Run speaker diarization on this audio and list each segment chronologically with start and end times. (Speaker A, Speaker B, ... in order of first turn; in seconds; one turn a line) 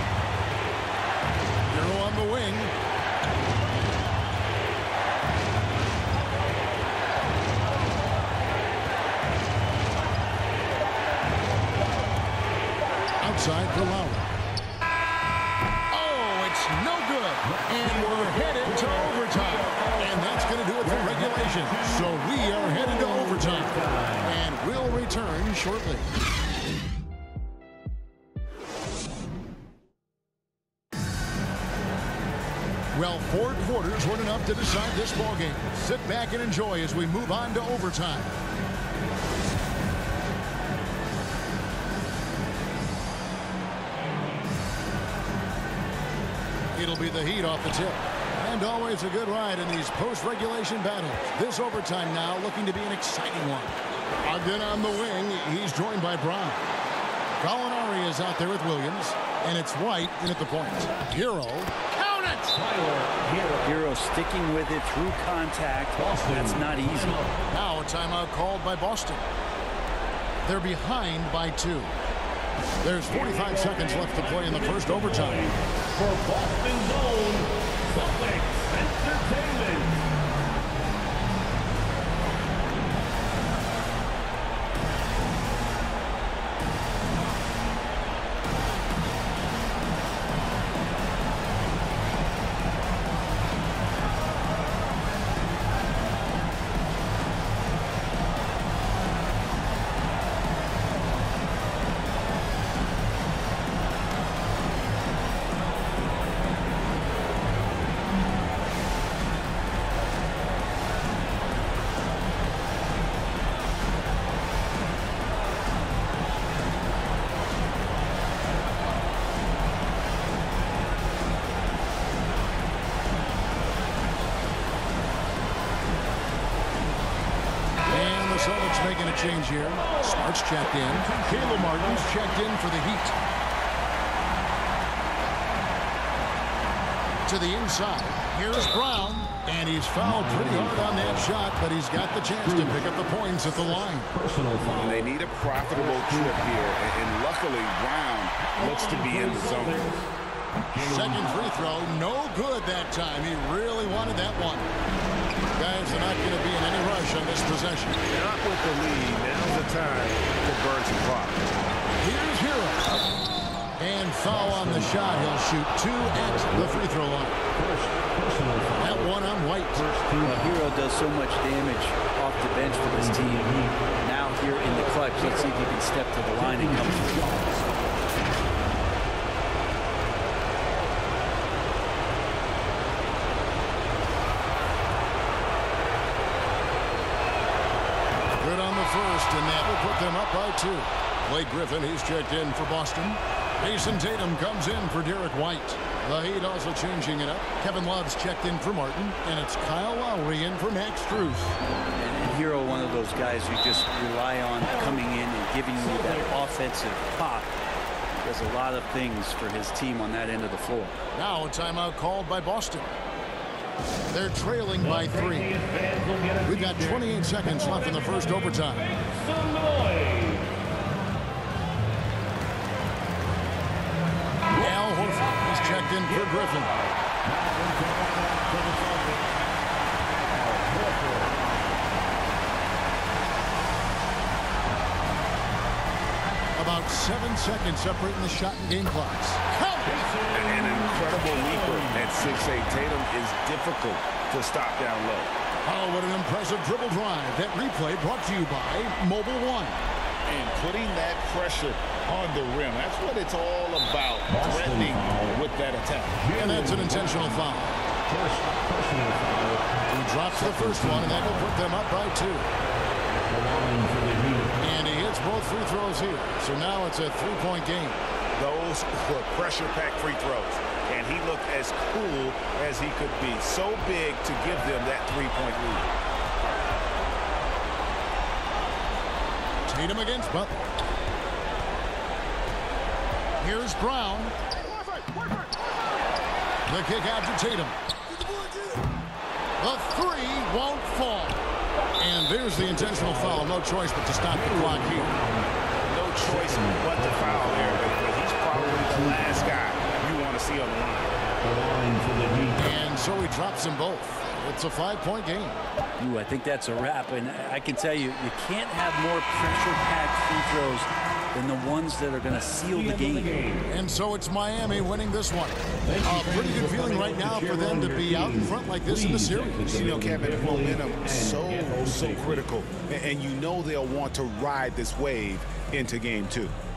Speaker A: 1.7-2.7
Speaker A: 13.2-14.2
Speaker A: 15.9-26.1
Speaker B: 17.4-24.4
Speaker A: 32.9-38.4
Speaker A: 46.7-56.6
Speaker A: 57.3-62.6
Speaker B: 62.5-63.9
Speaker C: 63.6-67.2
Speaker B: 65.9-67.5
Speaker A: 67.5-69.2
Speaker A: 70.4-71.9
Speaker A: 72.8-75.5
Speaker B: 73.1-80.0
Speaker B: 127.8-132.4
Speaker A: 127.8-133.1
Speaker A: 137.2-144.1
Speaker B: 140.0-141.3
Speaker B: 142.4-145.1
Speaker D: 144.7-149.9
Speaker B: 145.7-146.6
Speaker B: 148.4-150.1
Speaker B: 150.7-151.5
Speaker A: 150.8-154.7
Speaker A: 155.6-158.0
Speaker D: 158.1-161.4
Speaker A: 162.0-163.0
Speaker A: 163.8-167.4
Speaker B: 164.3-165.5
Speaker B: 166.0-166.9
Speaker B: 167.5-170.6
Speaker A: 168.8-169.8
Speaker C: 170.2-177.2
Speaker B: 172.5-173.9
Speaker B: 174.4-175.7
Speaker B: 176.3-177.7
Speaker A: 188.3-201.6
Speaker C: 202.0-207.5
Speaker B: 204.6-205.1
Speaker B: 205.7-206.4
Speaker C: 208.2-211.0
Speaker A: 211.1-212.9
Speaker A: 214.1-215.5
Speaker B: 214.8-220.5
Speaker A: 216.4-218.9
Speaker B: 224.5-229.2
Speaker A: 224.6-226.7
Speaker B: 230.1-231.3
Speaker A: 236.5-240.1
Speaker B: 239.8-242.4
Speaker D: 240.3-245.3
Speaker A: 245.6-249.8
Speaker D: 250.3-256.2
Speaker B: 254.3-255.4
Speaker B: 256.1-257.5
Speaker A: 256.4-257.7
Speaker B: 258.1-259.7
Speaker A: 259.9-262.5
Speaker B: 260.3-261.5
Speaker B: 263.3-264.6
Speaker A: 264.6-268.0
Speaker D: 268.3-275.9
Speaker A: 279.6-280.5
Speaker A: 283.4-284.3
Speaker A: 286.7-287.8
Speaker A: 289.6-291.4
Speaker A: 292.0-295.1
Speaker B: 292.6-293.5
Speaker B: 294.2-295.5
Speaker D: 295.9-301.2
Speaker B: 296.2-297.9
Speaker B: 298.5-299.6
Speaker B: 301.4-302.7
Speaker A: 302.6-305.6
Speaker C: 306.0-313.3
Speaker B: 312.6-313.6
Speaker A: 313.7-319.6
Speaker B: 315.8-322.5
Speaker D: 319.6-326.5